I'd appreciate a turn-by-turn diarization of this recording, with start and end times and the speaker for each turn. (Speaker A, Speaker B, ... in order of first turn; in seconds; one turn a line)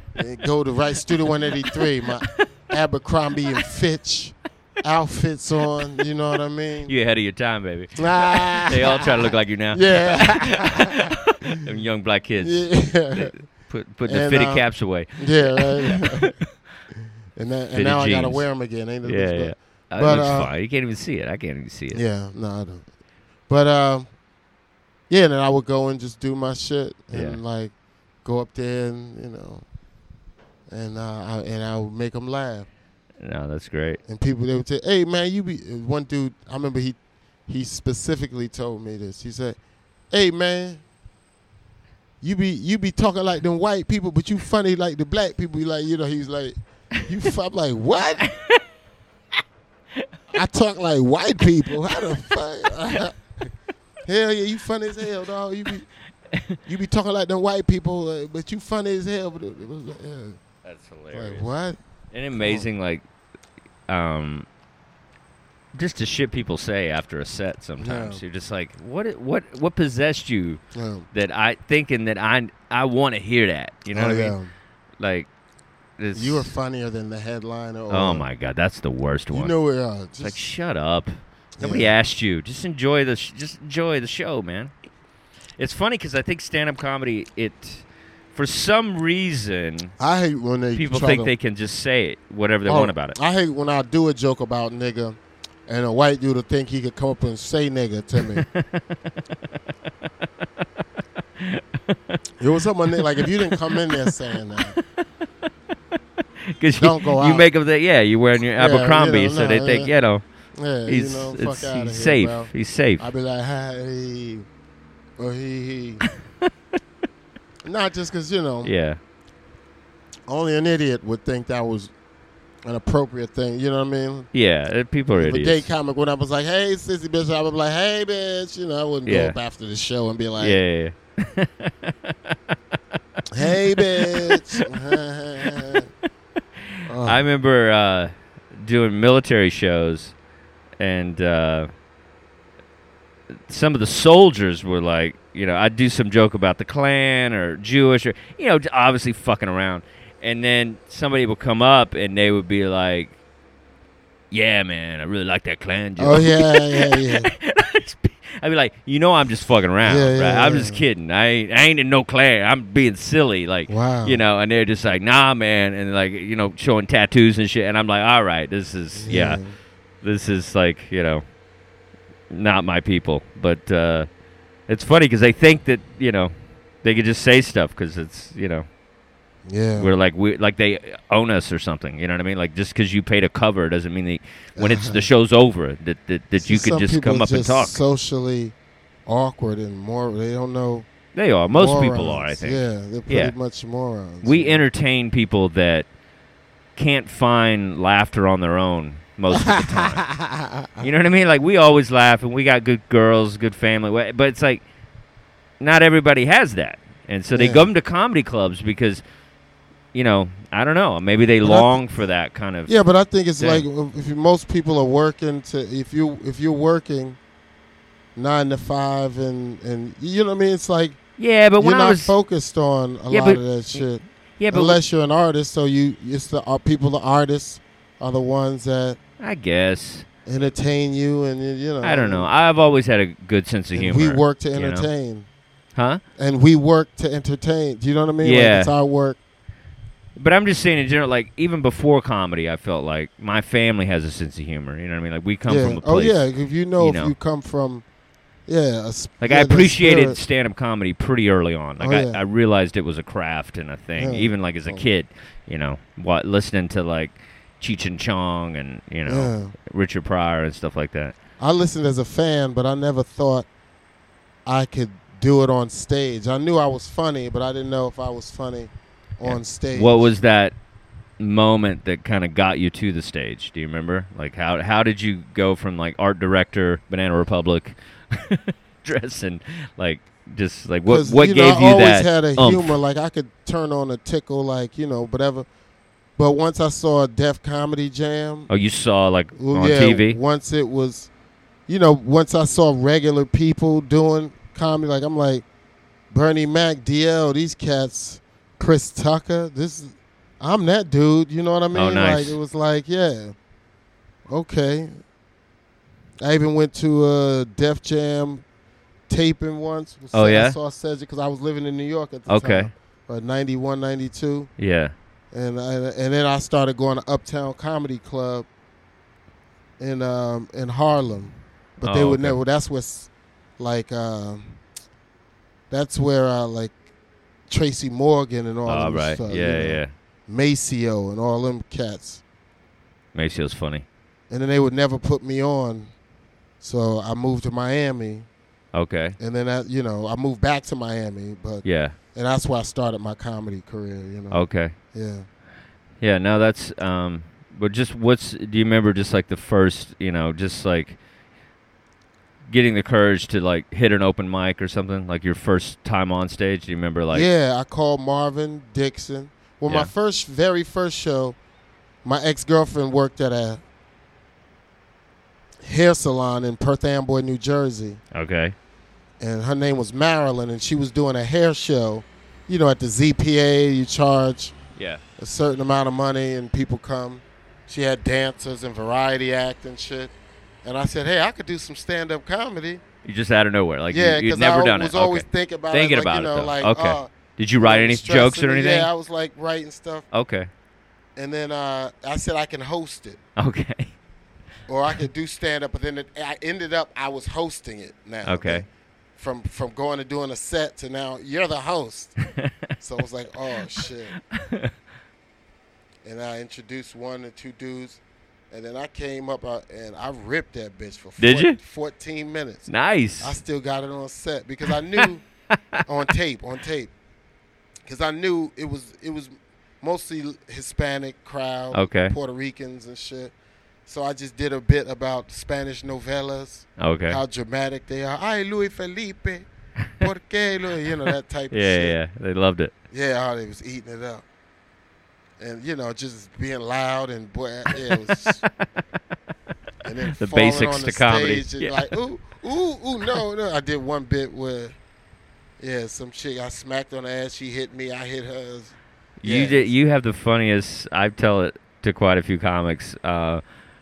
Speaker A: 0.1-6.9
Speaker B: 6.8-16.4
Speaker A: 8.0-11.6
Speaker A: 12.4-13.3
Speaker A: 14.1-14.6
Speaker A: 15.2-16.3
Speaker A: 17.3-20.5
Speaker B: 17.7-18.4
Speaker B: 19.0-22.0
Speaker A: 21.9-22.9
Speaker A: 23.5-24.1
Speaker A: 25.1-27.7
Speaker B: 27.1-27.4
Speaker A: 28.2-29.6
Speaker A: 30.7-32.7
Speaker B: 33.2-34.0
Speaker A: 34.1-39.6
Speaker A: 40.1-40.8
Speaker A: 42.2-48.3
Speaker B: 48.2-48.6
Speaker A: 50.3-53.2
Speaker A: 54.0-55.9
Speaker A: 56.7-60.4
Speaker B: 60.6-61.5
Speaker A: 61.1-61.8
Speaker B: 62.1-63.0
Speaker A: 62.4-62.7
Speaker B: 63.9-64.5
Speaker B: 65.7-70.6
Speaker A: 67.8-68.2
Speaker A: 70.7-71.0
Speaker B: 71.1-74.3
Speaker A: 73.9-74.5
Speaker B: 75.0-75.3
Speaker B: 76.0-76.5
Speaker A: 76.1-78.3
Speaker B: 77.9-79.5
Speaker A: 79.3-80.4
Speaker B: 80.2-84.7
Speaker A: 81.6-81.9
Speaker B: 85.6-89.9
Speaker A: 90.0-91.3
Speaker B: 90.8-93.2
Speaker A: 92.7-98.5
Speaker B: 98.3-99.2
Speaker B: 101.4-102.2
Speaker A: 102.4-104.8
Speaker B: 103.0-105.0
Speaker B: 106.5-110.2
Speaker A: 106.8-107.5
Speaker A: 108.5-109.9
Speaker A: 110.5-114.5
Speaker B: 110.8-113.1
Speaker A: 115.2-116.0
Speaker A: 117.6-118.7
Speaker B: 118.6-119.0
Speaker A: 120.3-121.9
Speaker A: 122.6-124.3
Speaker B: 124.3-125.7
Speaker A: 125.1-130.6
Speaker B: 129.1-129.3
Speaker B: 130.4-132.3
Speaker A: 133.3-135.9
Speaker B: 133.4-134.6
Speaker A: 136.9-137.2
Speaker B: 137.0-140.1
Speaker B: 140.8-141.7
Speaker B: 143.5-153.1
Speaker B: 154.3-169.4
Speaker A: 156.0-157.3
Speaker A: 159.8-160.8
Speaker A: 163.7-164.2
Speaker A: 169.0-169.5
Speaker B: 170.0-171.2
Speaker B: 172.3-174.1
Speaker B: 174.7-178.7
Speaker A: 179.5-179.9
Speaker B: 179.8-187.8
Speaker A: 184.6-185.0
Speaker A: 186.4-188.5
Speaker A: 189.1-190.9
Speaker B: 191.1-193.3
Speaker A: 191.5-194.6
Speaker B: 194.2-195.8
Speaker B: 196.8-200.1
Speaker A: 199.3-200.8
Speaker B: 200.8-204.6
Speaker B: 205.6-209.0
Speaker A: 207.3-207.7
Speaker B: 209.9-212.7
Speaker A: 211.4-211.8
Speaker A: 212.7-217.2
Speaker B: 213.4-213.6
Speaker A: 218.2-221.0
Speaker B: 221.2-222.1
Speaker A: 221.6-229.0
Speaker B: 223.1-223.8
Speaker B: 224.4-224.8
Speaker B: 229.2-230.1
Speaker A: 230.2-232.3
Speaker B: 231.8-234.9
Speaker A: 233.7-235.3
Speaker B: 235.8-236.0
Speaker A: 236.2-239.2
Speaker B: 238.2-238.7
Speaker B: 240.2-246.2
Speaker A: 245.4-247.8
Speaker B: 246.8-247.1
Speaker A: 248.5-250.2
Speaker B: 249.2-261.1
Speaker A: 251.8-252.2
Speaker A: 254.0-254.8
Speaker A: 259.1-259.5
Speaker A: 261.4-263.5
Speaker A: 264.4-270.1
Speaker B: 269.2-270.5
Speaker B: 271.2-282.8
Speaker A: 280.9-285.5
Speaker A: 286.2-288.5
Speaker B: 288.5-290.2
Speaker A: 289.4-291.1
Speaker A: 291.7-295.4
Speaker A: 296.1-303.4
Speaker B: 301.7-302.4
Speaker A: 304.3-305.0
Speaker A: 306.2-308.4
Speaker A: 309.1-314.5
Speaker B: 310.1-310.6
Speaker B: 312.3-312.7
Speaker B: 314.6-314.9
Speaker A: 315.3-318.5
Speaker A: 319.8-324.6
Speaker B: 321.8-322.4
Speaker A: 325.7-326.7
Speaker A: 327.5-332.2
Speaker B: 328.7-329.9
Speaker B: 333.1-333.9
Speaker A: 334.3-335.9
Speaker A: 336.6-338.3
Speaker B: 338.7-339.1
Speaker A: 339.2-345.3
Speaker B: 341.6-341.9
Speaker B: 344.3-344.7
Speaker B: 346.0-351.0
Speaker B: 352.5-357.3
Speaker A: 357.1-361.4
Speaker A: 362.0-363.6
Speaker A: 365.6-368.0
Speaker B: 368.1-368.5
Speaker A: 369.2-374.5
Speaker B: 374.8-375.0
Speaker A: 375.2-382.8
Speaker B: 383.0-388.9
Speaker A: 383.9-390.1
Speaker B: 390.1-390.5
Speaker A: 391.1-393.2
Speaker B: 393.4-393.9
Speaker A: 394.7-398.6
Speaker B: 398.2-398.6
Speaker A: 399.2-402.1
Speaker A: 402.8-404.1
Speaker B: 404.3-404.7
Speaker A: 406.0-412.7
Speaker B: 411.2-411.6
Speaker B: 412.7-413.3
Speaker A: 413.2-415.2
Speaker B: 415.5-415.8
Speaker A: 415.8-416.9
Speaker A: 417.8-423.3
Speaker B: 421.7-422.1
Speaker A: 423.9-429.5
Speaker B: 426.8-427.2
Speaker A: 430.0-431.9
Speaker B: 431.5-432.7
Speaker A: 432.9-434.2
Speaker A: 435.4-438.4
Speaker A: 439.8-444.8
Speaker B: 440.2-441.9
Speaker A: 445.6-449.7
Speaker B: 449.2-453.4